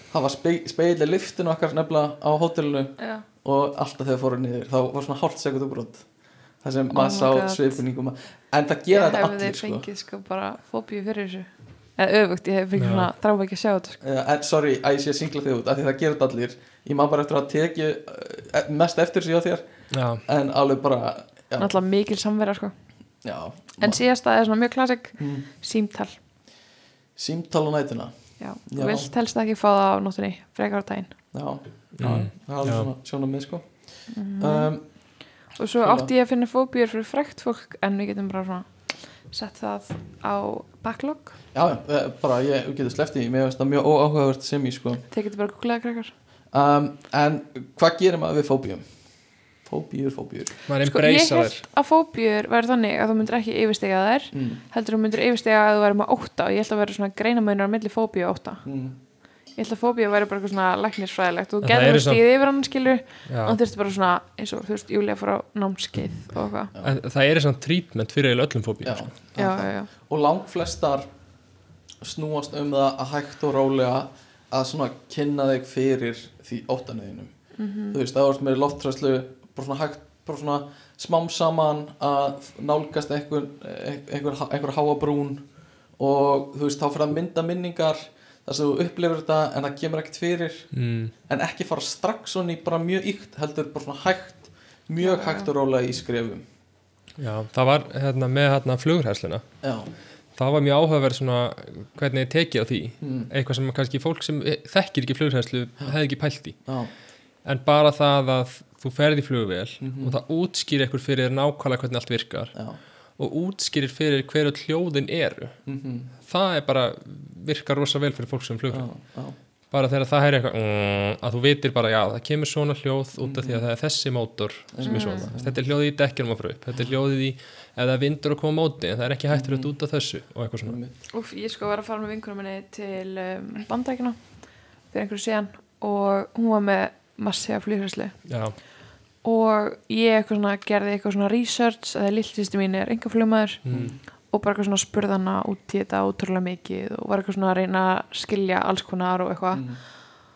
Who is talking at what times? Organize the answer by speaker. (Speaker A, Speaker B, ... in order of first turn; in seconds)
Speaker A: 0.1-6.0, 6.6-9.8, 14.0-19.6, 20.2-21.8, 23.2-24.0, 25.2-25.4, 27.1-28.1, 28.7-29.1, 31.3-33.7, 34.4-34.8, 35.8-36.1, 41.5-45.0, 46.5-48.8, 49.6-50.5, 54.3-54.6, 58.6-59.0, 68.8-71.0, 72.0-77.3, 77.9-85.4, 86.0-90.7, 91.3-96.4, 99.6-99.9, 103.0-103.3, 106.7-106.9, 109.8-110.2, 115.7-116.1, 118.7-119.3, 123.2-123.6, 124.7-125.6, 129.3-129.7, 130.7-130.9, 143.7-144.0, 149.5-149.8
Speaker B: 3.0-3.2, 6.9-7.8, 8.9-14.0, 21.6-22.7, 23.8-26.2, 28.4-31.1, 34.1-34.7, 35.6-38.7, 39.3-41.4, 45.1-46.1, 50.8-58.6, 59.5-66.7, 69.3-69.9, 77.6-78.0, 95.0-95.5, 124.8-125.3, 131.1-134.2, 134.9-138.2, 139.2-143.6, 144.3-149.8
Speaker C: 12.8-13.1, 19.9-20.2, 32.0-32.9, 50.7-51.6, 61.6-62.2, 63.3-63.6, 66.8-69.1, 90.7-91.1, 97.2-99.4, 100.3-106.6, 107.4-112.5, 113.2-115.6, 116.2-118.9, 119.7-130.8, 138.3-138.6, 143.6-143.9